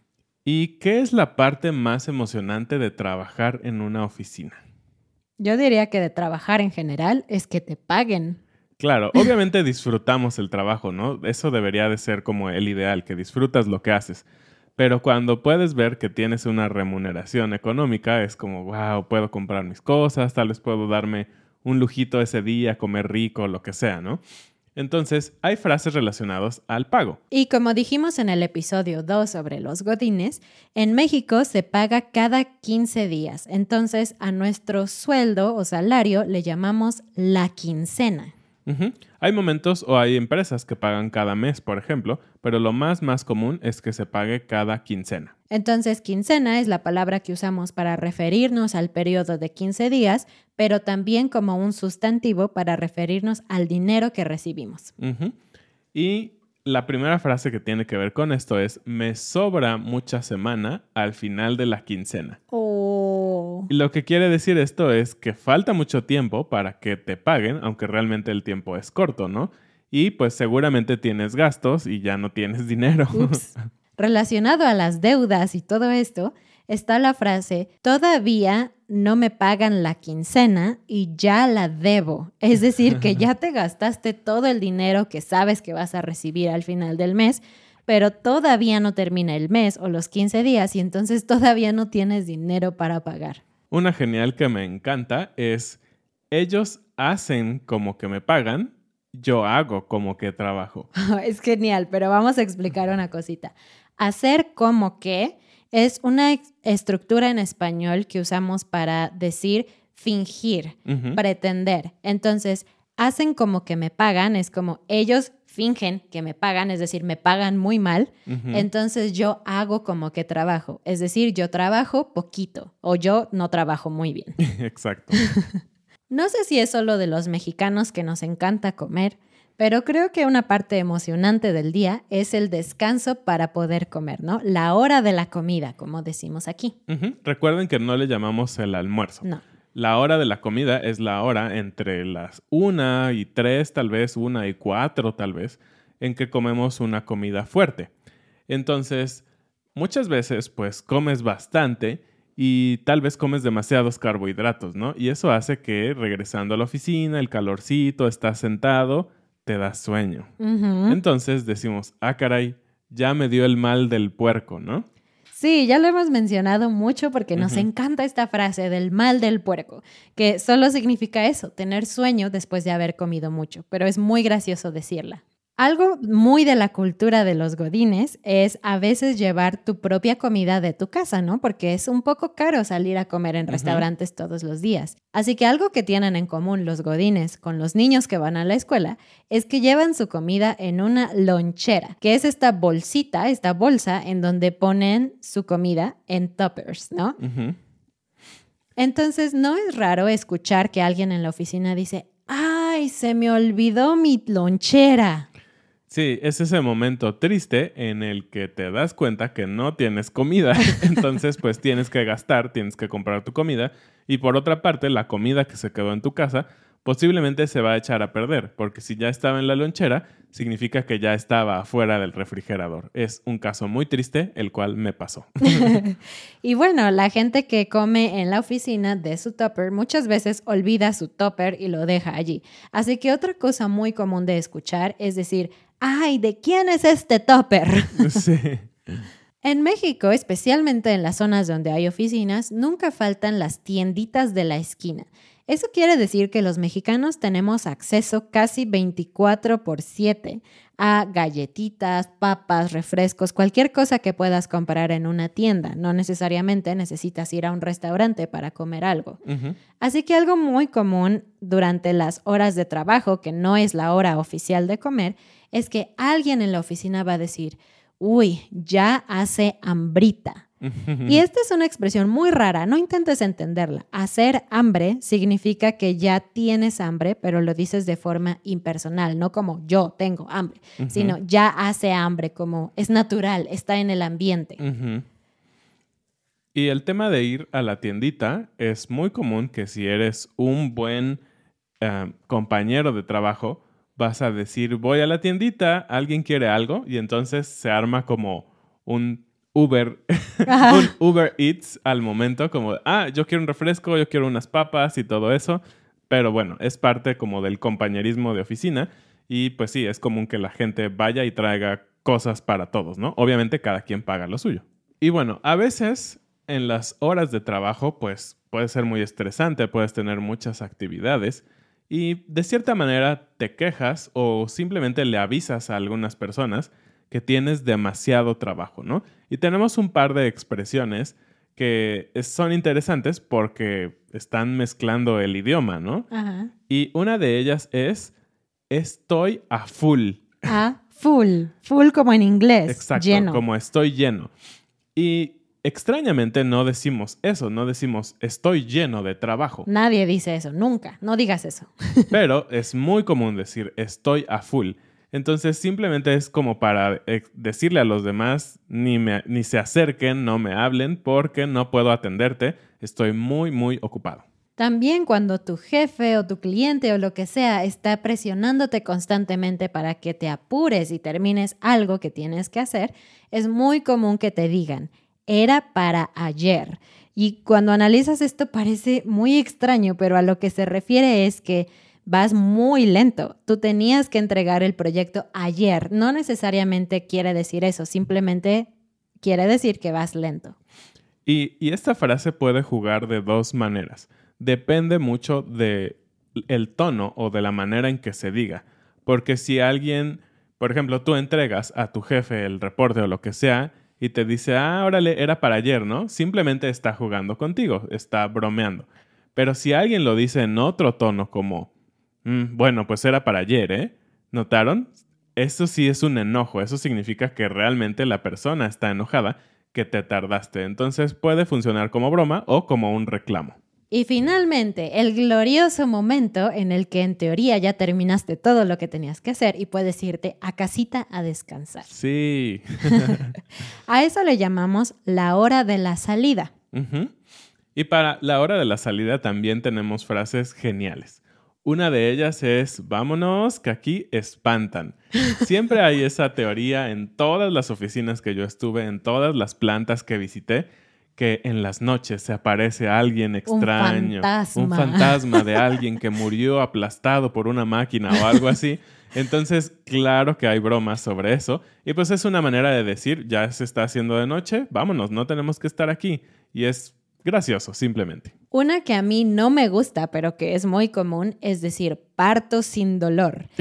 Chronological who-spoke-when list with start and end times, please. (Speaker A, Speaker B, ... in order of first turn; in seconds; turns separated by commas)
Speaker A: 0.4-4.6, Speaker B: 5.4-8.4, Speaker A: 8.8-14.2, Speaker A: 14.8-24.2, Speaker A: 24.7-27.2, Speaker B: 27.3-38.3, Speaker A: 38.6-45.3, Speaker B: 45.5-54.9, Speaker A: 55.0-55.3, Speaker A: 55.9-62.4, Speaker B: 62.5-63.7, Speaker A: 63.7-73.5, Speaker B: 73.1-93.4, Speaker A: 93.7-95.8, Speaker A: 96.3-100.9, Speaker B: 101.0-124.4, Speaker A: 110.9-111.2, Speaker A: 118.3-118.7, Speaker A: 124.4-125.2, Speaker B: 126.1-136.7, Speaker A: 136.9-147.9, Speaker A: 148.5-149.2, Speaker A: 149.7-160.3, Speaker B: 160.4-161.0, Speaker A: 160.9-164.8, Speaker B: 165.3-197.2, Speaker A: 167.4-167.7, Speaker A: 183.5-183.8, Speaker A: 197.2-197.6, Speaker B: 198.8-205.3, Speaker A: 205.9-225.8, Speaker B: 225.6-238.2, Speaker A: 238.0-239.0, Speaker B: 239.4-259.2, Speaker A: 259.2-259.6, Speaker B: 259.8-270.5, Speaker A: 270.6-271.2, Speaker B: 271.1-284.6, Speaker A: 280.8-281.1, Speaker A: 284.6-285.1, Speaker A: 286.5-291.2, Speaker A: 291.8-336.1, Speaker B: 300.5-300.9, Speaker B: 336.1-336.5, Speaker A: 336.7-338.1, Speaker A: 338.7-340.2, Speaker B: 340.4-343.4, Speaker A: 342.7-344.3, Speaker A: 344.9-349.7, Speaker B: 349.7-352.1, Speaker A: 352.1-364.2, Speaker B: 364.6-388.7, Speaker B: 389.2-390.6, Speaker A: 391.2-411.7, Speaker A: 412.2-423.6, Speaker B: 423.9-431.9, Speaker A: 431.9-433.4, Speaker B: 432.9-433.1, Speaker B: 433.9-436.5, Speaker A: 436.7-437.1, Speaker A: 437.7-468.3, Speaker B: 453.5-455.6, Speaker B: 468.5-473.5